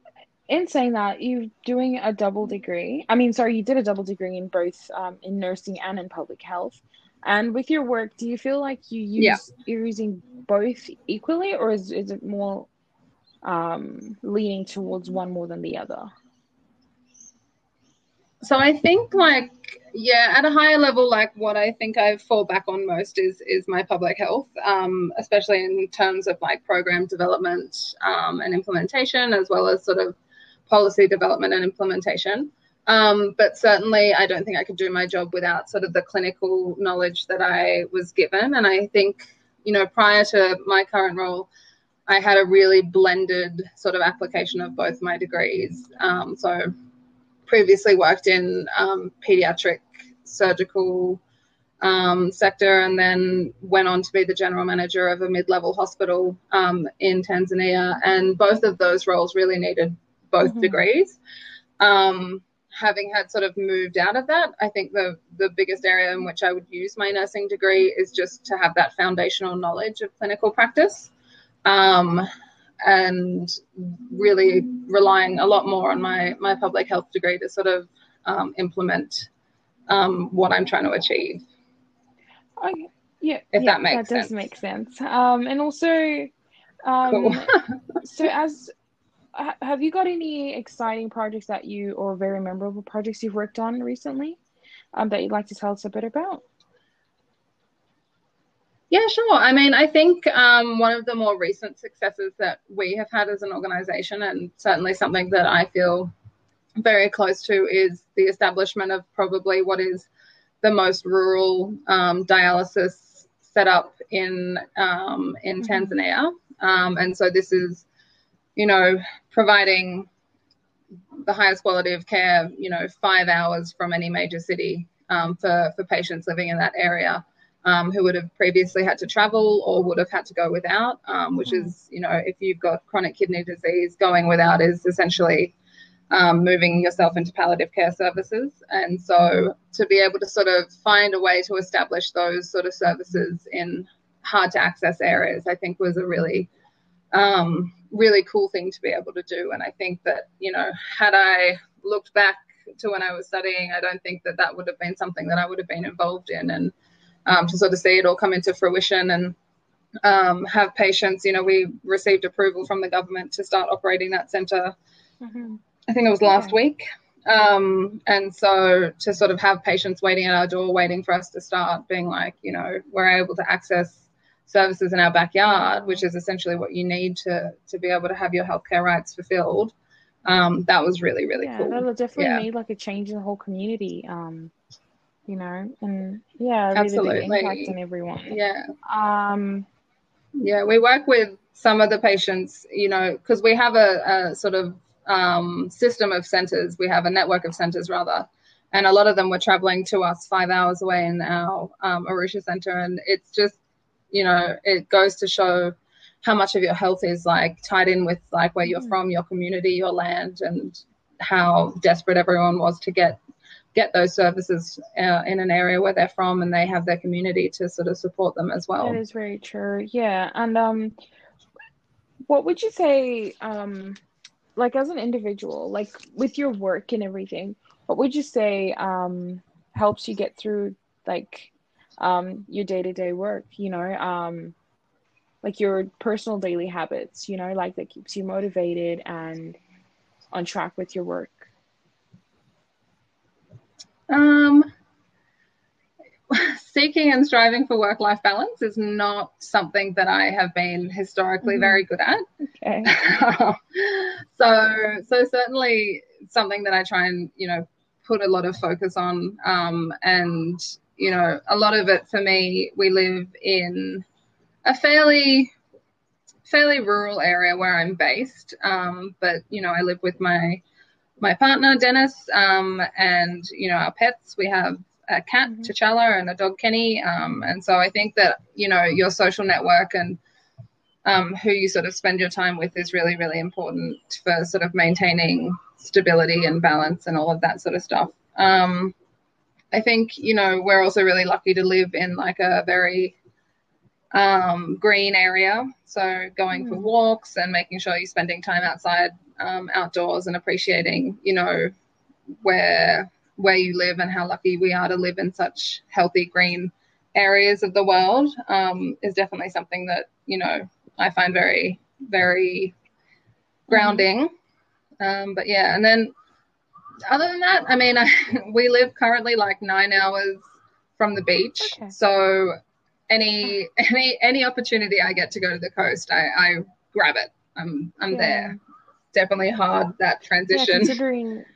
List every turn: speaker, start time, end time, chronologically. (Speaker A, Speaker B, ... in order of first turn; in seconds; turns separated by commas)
Speaker A: 0.5-12.7, Speaker B: 9.2-9.4, Speaker A: 13.4-16.1, Speaker B: 18.4-30.2, Speaker B: 30.7-41.5, Speaker B: 42.1-46.7, Speaker B: 47.5-51.2, Speaker B: 51.8-61.2, Speaker A: 60.4-60.8, Speaker B: 61.8-71.1, Speaker B: 71.7-72.3, Speaker B: 72.8-79.3, Speaker B: 79.9-81.4, Speaker A: 82.6-86.3, Speaker B: 83.5-84.5, Speaker A: 86.8-88.7, Speaker B: 87.1-87.8, Speaker A: 89.3-94.4, Speaker A: 94.9-96.4, Speaker B: 98.9-106.1, Speaker B: 106.8-110.1, Speaker B: 110.6-117.9, Speaker A: 115.6-116.0, Speaker B: 118.6-120.1, Speaker B: 121.2-135.5, Speaker A: 131.5-131.7, Speaker B: 136.1-146.5, Speaker B: 147.1-156.7, Speaker B: 157.3-159.3, Speaker B: 160.0-164.8, Speaker A: 165.2-165.6, Speaker B: 165.9-179.7, Speaker A: 166.3-166.6, Speaker A: 175.4-176.1, Speaker B: 180.3-182.5, Speaker A: 181.3-184.5, Speaker A: 185.3-189.7, Speaker B: 186.7-187.8, Speaker B: 188.3-188.7, Speaker B: 190.4-203.6, Speaker B: 204.1-213.2, Speaker A: 208.7-208.9, Speaker B: 213.7-219.0, Speaker A: 218.8-220.9, Speaker A: 222.3-224.0, Speaker A: 224.6-234.6, Speaker A: 235.4-239.6, Speaker A: 240.3-241.5, Speaker B: 244.1-244.7, Speaker B: 246.3-252.2, Speaker A: 251.4-251.8, Speaker A: 252.5-252.9, Speaker B: 252.8-264.1, Speaker B: 264.6-265.5, Speaker B: 266.5-270.6, Speaker B: 271.2-280.2, Speaker B: 281.1-288.9, Speaker B: 289.7-293.2, Speaker B: 294.1-301.7, Speaker A: 296.5-296.9, Speaker B: 302.4-312.7, Speaker B: 313.7-314.3, Speaker A: 313.7-314.1, Speaker B: 315.0-316.1, Speaker B: 317.1-320.4, Speaker B: 321.0-322.6, Speaker A: 321.6-321.9, Speaker B: 323.1-328.6, Speaker A: 328.1-328.6, Speaker B: 329.1-331.0, Speaker A: 330.5-331.5